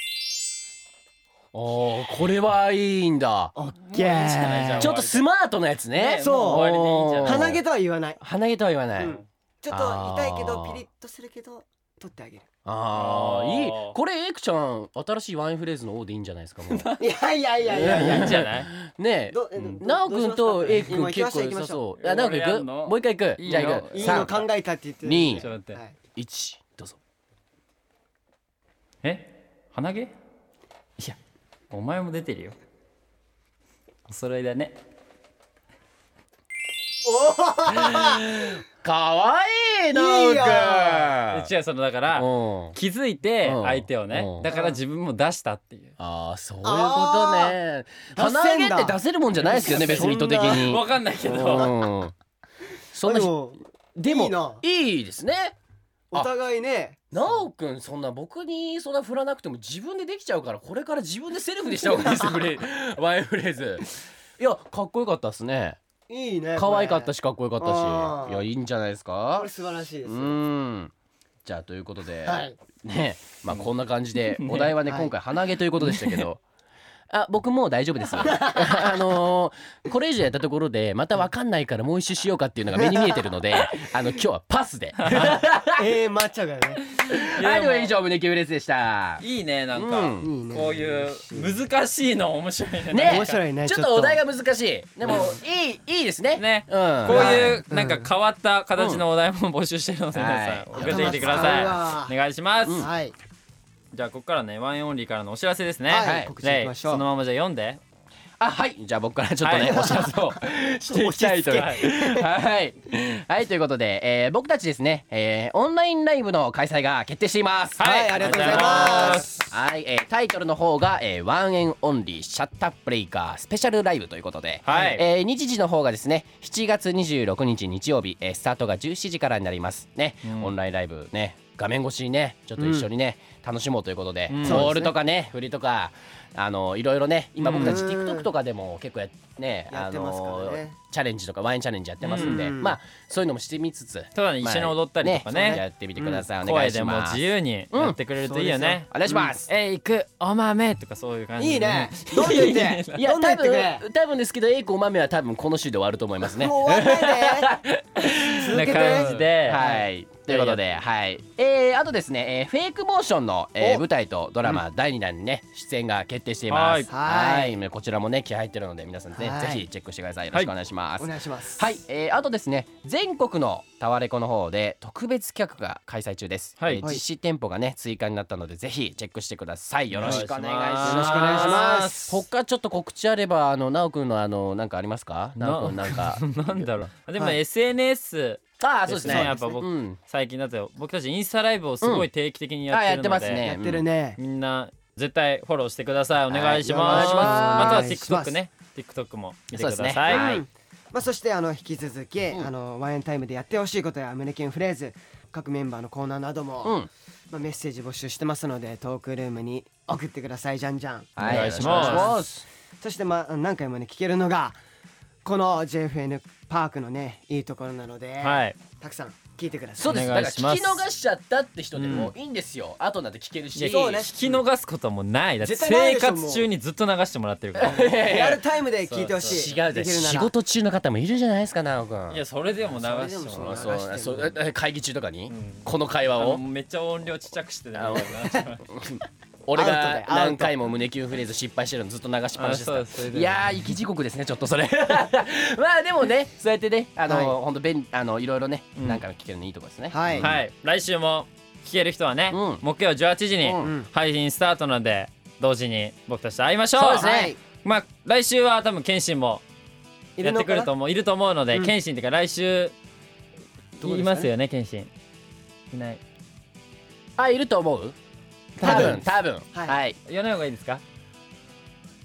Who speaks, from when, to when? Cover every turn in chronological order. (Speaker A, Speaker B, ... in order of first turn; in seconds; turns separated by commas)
Speaker A: 1.5-3.5, Speaker B: 3.5-5.0, Speaker C: 3.9-5.3, Speaker A: 4.4-7.6, Speaker C: 5.9-7.6, Speaker B: 6.2-6.7, Speaker B: 7.2-8.2, Speaker A: 8.2-10.8, Speaker B: 9.0-12.5, Speaker A: 12.7-16.9, Speaker C: 12.9-14.0, Speaker C: 16.7-17.1, Speaker B: 17.0-18.5, Speaker A: 17.7-24.5, Speaker C: 17.8-18.7, Speaker B: 19.3-21.8, Speaker C: 22.0-24.5, Speaker B: 23.9-26.0, Speaker A: 25.0-25.5, Speaker C: 25.4-25.8, Speaker A: 26.1-27.0, Speaker C: 29.0-30.1, Speaker C: 31.7-32.6, Speaker C: 34.1-34.8, Speaker B: 37.0-38.3, Speaker A: 37.7-41.5, Speaker B: 39.9-41.2, Speaker C: 41.3-46.0, Speaker A: 42.1-42.8, Speaker A: 43.4-44.5, Speaker B: 44.5-44.8, Speaker A: 46.0-52.1, Speaker B: 46.6-47.6, Speaker B: 48.1-50.8, Speaker C: 49.6-51.8, Speaker A: 52.9-53.3, Speaker B: 53.0-54.6, Speaker A: 54.0-55.6, Speaker B: 56.1-57.3, Speaker A: 57.1-65.8, Speaker B: 62.1-62.4, Speaker B: 66.1-68.5, Speaker A: 66.6-69.5, Speaker B: 69.4-70.4, Speaker A: 70.0-70.9, Speaker A: 71.5-76.4, Speaker B: 72.2-72.6, Speaker C: 73.5-74.8, Speaker B: 74.8-75.1, Speaker C: 75.8-76.3, Speaker A: 77.1-85.9, Speaker B: 78.2-79.0, Speaker B: 82.8-83.2, Speaker C: 85.0-85.4, Speaker B: 85.1-86.8, Speaker C: 86.9-88.0, Speaker A: 87.1-90.3, Speaker C: 89.2-93.4, Speaker B: 90.2-91.6, Speaker A: 92.9-97.6, Speaker B: 93.0-94.2, Speaker B: 95.1-95.3, Speaker C: 95.1-95.3, Speaker C: 96.4-102.9, Speaker B: 97.1-98.1, Speaker A: 98.8-99.0, Speaker A: 100.1-101.8, Speaker B: 100.7-102.1, Speaker A: 102.6-102.9, Speaker B: 102.8-103.2, Speaker C: 103.9-107.8, Speaker B: 105.9-107.0, Speaker A: 106.0-106.3, Speaker A: 108.4-148.0, Speaker C: 109.4-110.0, Speaker B: 109.7-110.1, Speaker B: 110.9-112.3, Speaker C: 111.5-111.9, Speaker C: 117.8-119.5, Speaker B: 117.8-119.5, Speaker C: 124.7-125.0, Speaker C: 130.2-130.5, Speaker B: 132.6-132.9, Speaker C: 134.3-134.7, Speaker B: 134.4-134.9, Speaker B: 137.4-138.3, Speaker C: 137.5-137.8, Speaker B: 139.7-140.8, Speaker C: 142.0-142.5, Speaker B: 142.1-142.8, Speaker C: 144.2-153.1, Speaker B: 145.3-145.6, Speaker B: 148.3-148.8, Speaker A: 148.9-149.5, Speaker B: 151.4-153.8, Speaker A: 152.9-186.9, Speaker B: 156.3-157.6, Speaker B: 158.2-159.8, Speaker C: 158.5-159.7, Speaker C: 160.3-160.6, Speaker B: 163.6-163.8, Speaker C: 166.5-166.9, Speaker B: 166.9-167.6, Speaker B: 169.2-169.6, Speaker B: 171.0-171.6, Speaker C: 176.6-176.8, Speaker C: 179.9-182.2, Speaker B: 180.0-180.3, Speaker B: 180.8-182.0, Speaker C: 185.4-193.5, Speaker A: 188.6-190.0, Speaker B: 189.1-189.6, Speaker A: 191.8-192.1, Speaker A: 192.7-193.8, Speaker B: 193.4-194.2, Speaker C: 194.2-200.4, Speaker A: 196.3-197.9, Speaker B: 196.7-198.4, Speaker A: 199.5-200.4, Speaker B: 200.1-212.3, Speaker A: 206.6-206.9, Speaker A: 211.2-212.5, Speaker C: 211.2-212.1, Speaker B: 212.8-214.6, Speaker B: 215.2-220.1, Speaker C: 218.2-218.6, Speaker A: 219.8-224.1, Speaker C: 219.8-220.8, Speaker C: 221.8-222.1, Speaker C: 223.6-227.9, Speaker B: 223.6-224.4, Speaker B: 225.4-226.5, Speaker A: 227.6-228.4, Speaker B: 227.7-230.3, Speaker C: 228.9-229.5, Speaker A: 229.2-232.2, Speaker C: 232.1-233.7, Speaker B: 232.8-234.4, Speaker A: 233.3-236.4, Speaker C: 235.3-238.7, Speaker A: 237.8-250.4, Speaker B: 239.5-240.6, Speaker C: 242.4-243.4, Speaker B: 247.1-247.4, Speaker C: 248.8-249.0, Speaker B: 249.9-250.3, Speaker C: 250.2-259.4, Speaker A: 252.3-252.7, Speaker A: 253.4-253.7, Speaker B: 253.6-253.9, Speaker A: 256.8-257.4, Speaker B: 256.8-257.4, Speaker B: 260.2-260.7, Speaker C: 260.2-262.8, Speaker B: 263.8-264.3, Speaker C: 263.8-264.9, Speaker C: 265.7-266.0, Speaker A: 267.2-268.0, Speaker A: 268.6-270.0, Speaker C: 268.6-269.0, Speaker B: 268.6-269.8, Speaker C: 270.1-270.8